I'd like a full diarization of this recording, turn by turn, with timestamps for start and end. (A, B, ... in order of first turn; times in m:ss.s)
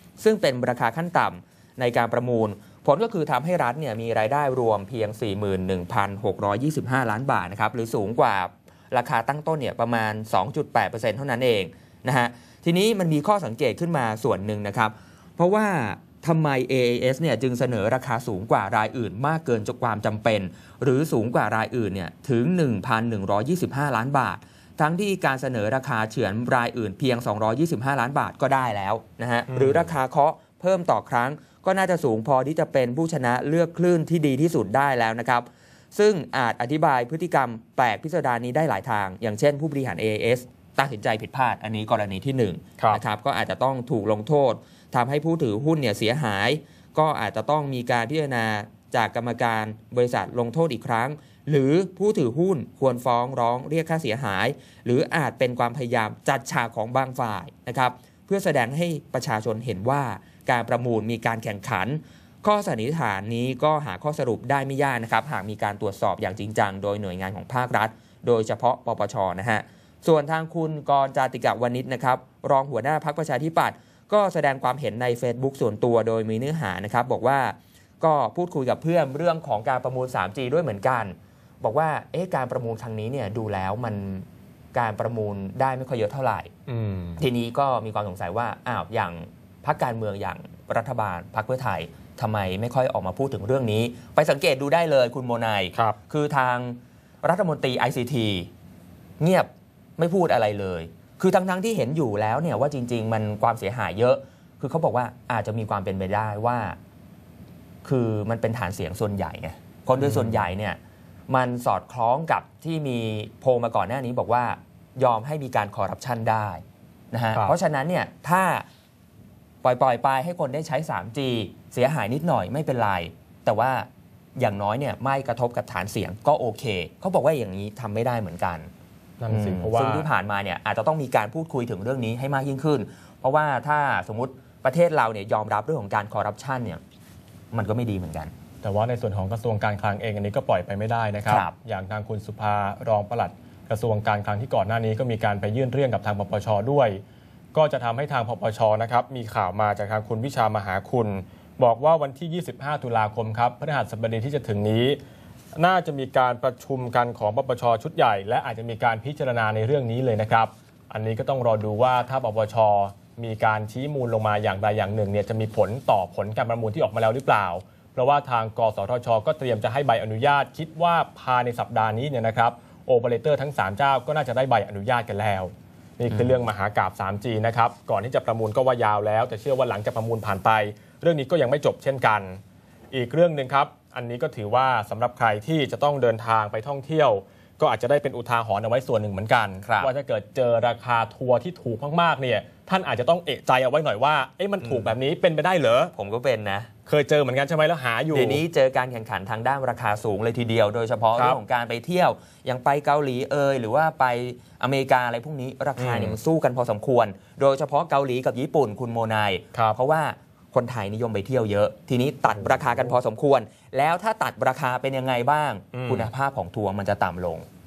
0:00.2-1:26.5 A
0:29.5-0:29.9 B
1:26.7-1:27.2 B
1:27.2-1:38.5 A
1:39.2-1:46.8 A
1:47.8-1:50.8 A
1:50.0-1:50.4 B
1:51.3-1:58.6 A
1:59.6-2:08.7 A
2:09.2-2:10.1 B
2:09.3-2:16.8 A
2:17.5-2:18.3 A
2:18.6-2:27.0 B
2:21.2-2:21.5 A
2:27.5-2:35.0 B
2:35.6-3:02.4 B
2:56.1-2:56.4 A
3:02.9-3:15.9 B
3:09.6-3:09.9 A
3:14.6-3:14.9 A
3:15.9-3:16.7 A
3:16.8-3:18.4 B
3:18.1-3:37.4 A
3:25.8-3:26.1 B
3:32.4-3:32.9 B
3:35.7-3:36.1 B